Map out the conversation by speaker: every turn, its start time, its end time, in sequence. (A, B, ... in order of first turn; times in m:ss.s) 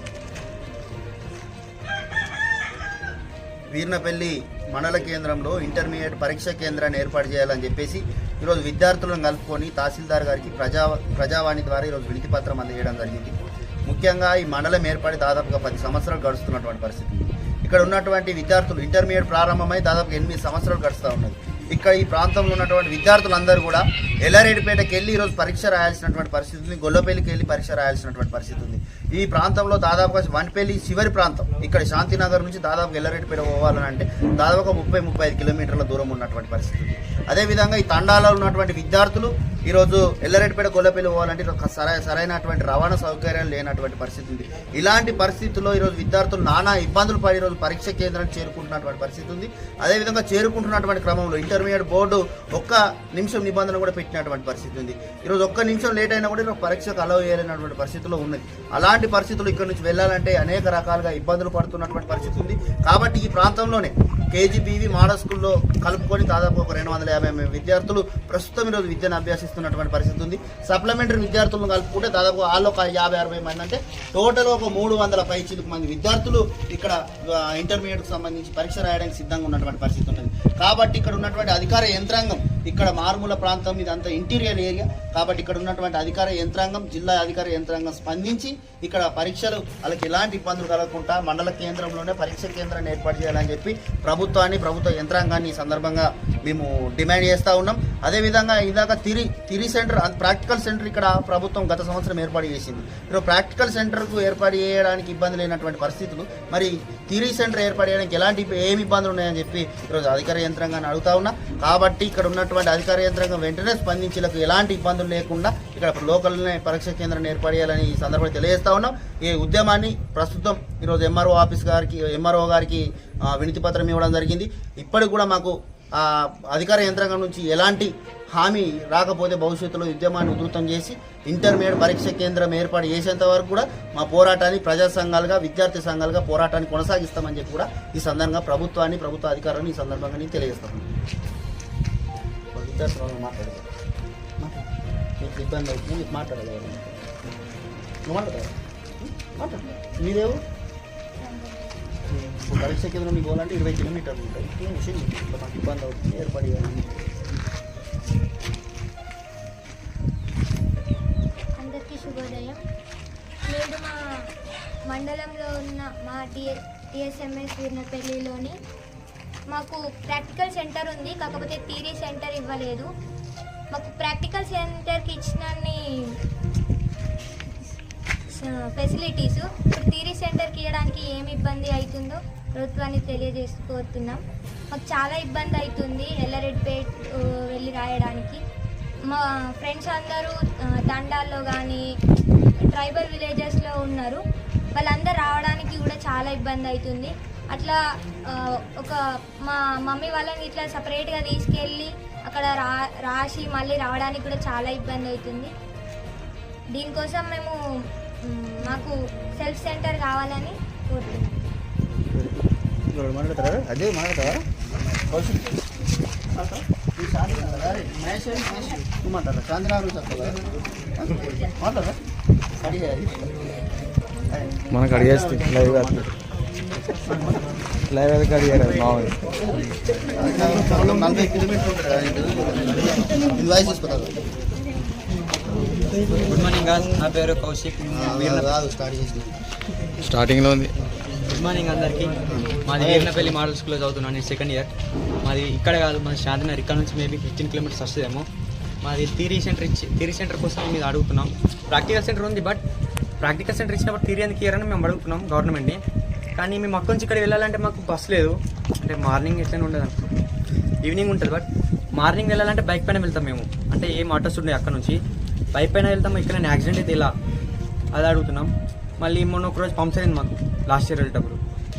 0:03.7-2:20.9 A
2:22.5-2:23.6 A
2:24.4-2:24.7 A
2:25.2-2:27.1 A
2:28.0-2:30.4 A
2:31.2-2:31.7 B
2:32.1-2:37.0 A
2:41.6-2:42.6 B
2:43.5-2:43.9 B
2:44.9-2:48.6 B
2:49.5-2:52.9 B
2:53.7-2:55.8 B
2:58.3-3:04.2 B
3:04.7-3:08.4 B
3:09.1-3:11.8 B
3:12.7-3:14.2 B
3:14.7-3:17.8 B
3:18.3-3:25.5 B
3:26.8-3:27.5 B
3:28.3-3:31.4 B
3:32.1-3:32.4 A
3:32.9-3:34.4 A
3:35.1-3:35.6 A
3:36.3-3:40.4 A
3:41.0-3:42.0 A
3:42.6-3:43.3 A
3:44.3-3:46.1 A
3:44.7-3:46.0 C
3:47.0-3:47.6 A
3:48.0-3:49.1 C
3:48.2-3:49.1 A
3:50.1-3:54.2 A
3:56.2-3:58.6 D
3:57.9-3:59.3 A
4:00.0-4:00.7 C
4:01.3-4:04.7 D
4:02.3-4:03.1 A
4:05.2-4:08.3 D
4:08.8-4:12.6 D
4:13.2-4:15.8 D
4:16.4-4:20.1 D
4:20.8-4:25.0 D
4:25.5-4:27.1 D
4:27.9-4:31.4 D